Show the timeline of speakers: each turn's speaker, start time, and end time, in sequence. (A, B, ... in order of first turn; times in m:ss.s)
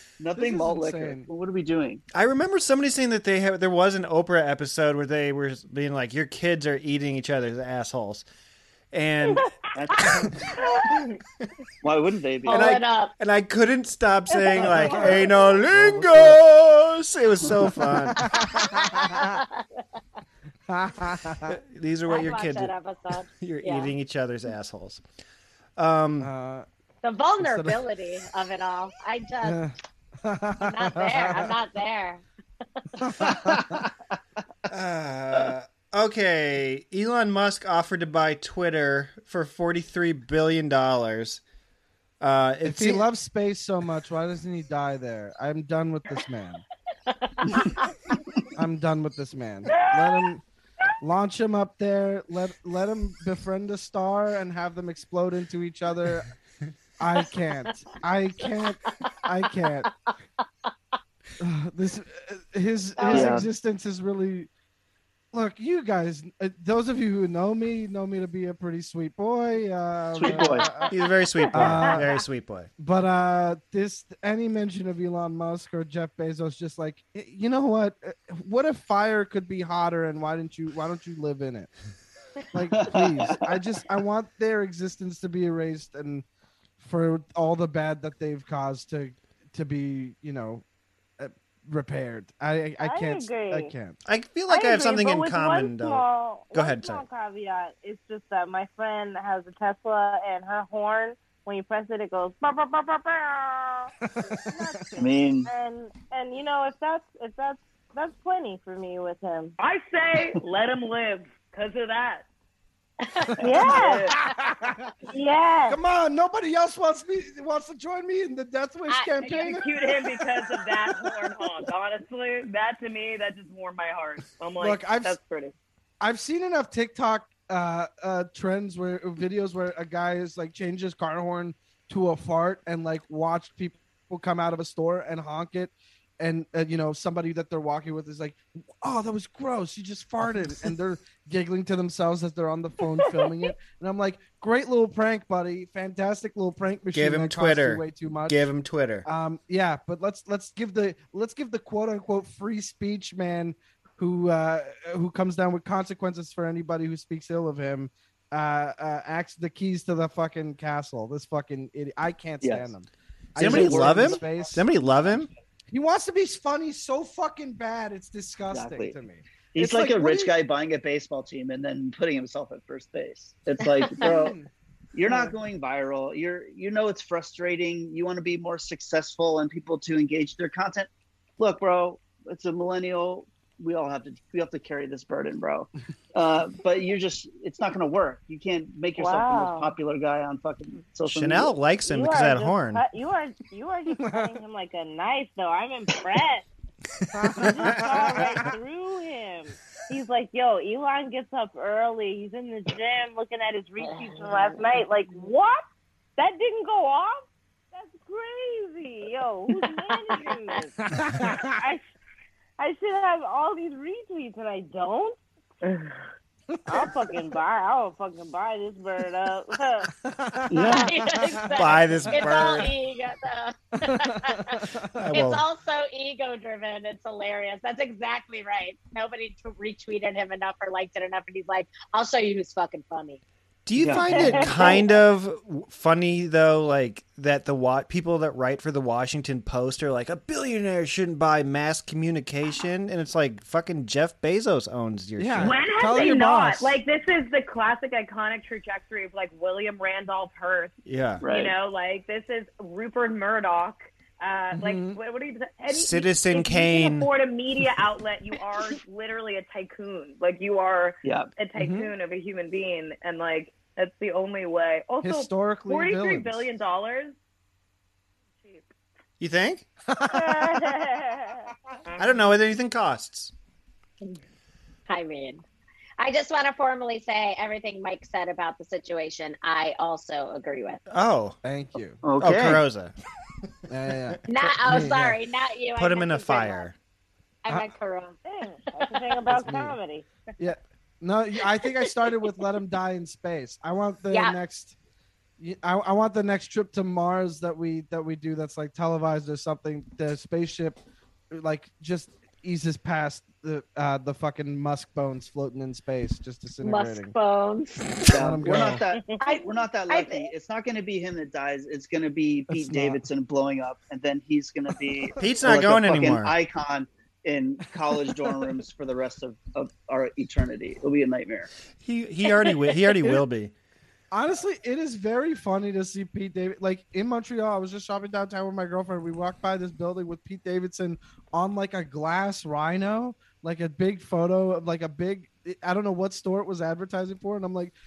0:00.2-0:02.0 A
0:00.4-0:01.3 B
0:02.1-0:08.2 C
0:08.9-0:09.5 C
0:09.8-0:10.6 A
0:11.8-0:12.7 A
0:12.4-0:13.1 D
0:12.5-0:18.4 C
0:14.3-0:15.6 E
0:14.6-0:16.4 B
0:17.5-0:19.4 B
0:18.4-0:19.6 D
0:20.7-0:21.6 B
0:21.5-0:22.7 C
0:22.1-0:23.9 D
0:23.4-0:25.0 C
0:25.8-0:26.3 C
0:26.2-0:26.7 B
0:27.0-0:29.6 D
0:27.4-0:27.8 B
0:29.4-0:31.6 B
0:30.6-0:32.2 D
0:33.0-0:33.8 B
0:34.7-0:41.4 C
0:42.2-0:43.0 C
0:42.6-0:46.6 B
0:47.1-0:47.8 D
0:48.6-0:50.4 B
0:51.0-0:56.3 B
0:57.0-0:59.9 B
1:01.4-1:04.5 B
1:03.0-1:03.4 D
1:03.1-1:03.5 A
1:05.3-1:11.0 B
1:10.2-1:10.7 A
1:10.9-1:12.7 C
1:11.5-1:12.2 B
1:12.8-1:21.7 B
1:22.5-1:26.2 B
1:22.7-1:23.4 A
1:26.8-1:30.6 B
1:31.2-1:34.0 B
1:32.8-1:33.7 E
1:34.0-1:37.0 C
1:34.5-1:49.6 E
1:44.1-1:45.0 B
1:45.0-1:45.5 A
1:49.6-1:52.2 F
1:53.1-1:53.3 D
1:53.3-1:54.9 B
1:53.4-1:54.2 E
1:53.6-1:54.2 F
1:55.1-1:55.8 E
1:55.7-1:59.6 B
1:58.9-1:59.9 D
1:59.3-2:05.5 F
2:04.6-2:05.2 B
2:06.0-2:28.5 B
2:23.0-2:23.3 E
2:26.9-2:29.1 C
2:29.0-2:44.7 B
2:42.4-2:42.7 A
2:43.4-2:45.3 C
2:43.4-2:44.2 A
2:45.7-2:50.4 B
2:48.5-2:49.0 A
2:49.6-2:54.4 A
2:54.0-2:54.5 B
2:54.9-3:11.6 A
3:09.0-3:09.7 E
3:11.1-3:12.8 C
3:11.9-3:16.5 E
3:14.0-3:14.4 B
3:17.1-3:18.6 B
3:17.4-3:25.6 E
3:26.2-3:31.8 E
3:30.9-3:31.5 B
3:32.6-3:35.2 E
3:36.6-3:37.1 B
3:36.7-3:39.9 E
3:40.0-3:41.5 B
3:40.5-3:40.9 A
3:40.6-3:44.6 D
3:41.5-3:42.7 C
3:43.9-3:45.0 B
3:45.0-3:45.4 C
3:45.1-3:53.2 D
3:53.7-4:06.1 C
3:53.8-3:54.3 A
3:54.1-3:54.8 E
4:05.2-4:06.8 B
4:05.4-4:10.7 F
4:10.9-4:11.2 C
4:11.2-4:11.6 A
4:11.2-4:27.2 F
4:14.6-4:15.0 B
4:15.7-4:17.1 C
4:21.0-4:21.3 A
4:21.6-4:21.9 B
4:25.0-4:26.5 B
4:28.4-4:28.7 F
4:29.2-4:29.6 C
4:29.9-4:30.7 B
4:30.1-4:31.5 E
4:31.9-4:32.3 F
4:32.0-4:33.3 C
4:34.9-4:35.4 D
4:36.0-4:40.8 D
4:40.9-4:41.4 C
4:41.4-4:42.0 B
4:42.0-4:42.6 A
4:42.2-4:42.9 C
4:43.7-4:45.2 B
4:44.3-4:46.7 D
4:45.8-4:46.7 C
4:47.4-4:48.2 D
4:48.3-4:50.0 E
4:49.3-4:49.8 B
4:50.4-4:54.8 B
4:54.1-4:54.4 D
4:55.4-5:00.8 B
5:01.3-5:07.2 B
5:06.6-5:07.8 D
5:08.1-5:21.5 A
5:08.1-5:08.8 B
5:09.2-5:10.3 D
5:12.5-5:13.0 B
5:15.2-5:16.4 C
5:18.0-5:18.3 B
5:21.8-5:23.5 C
5:24.1-5:37.7 B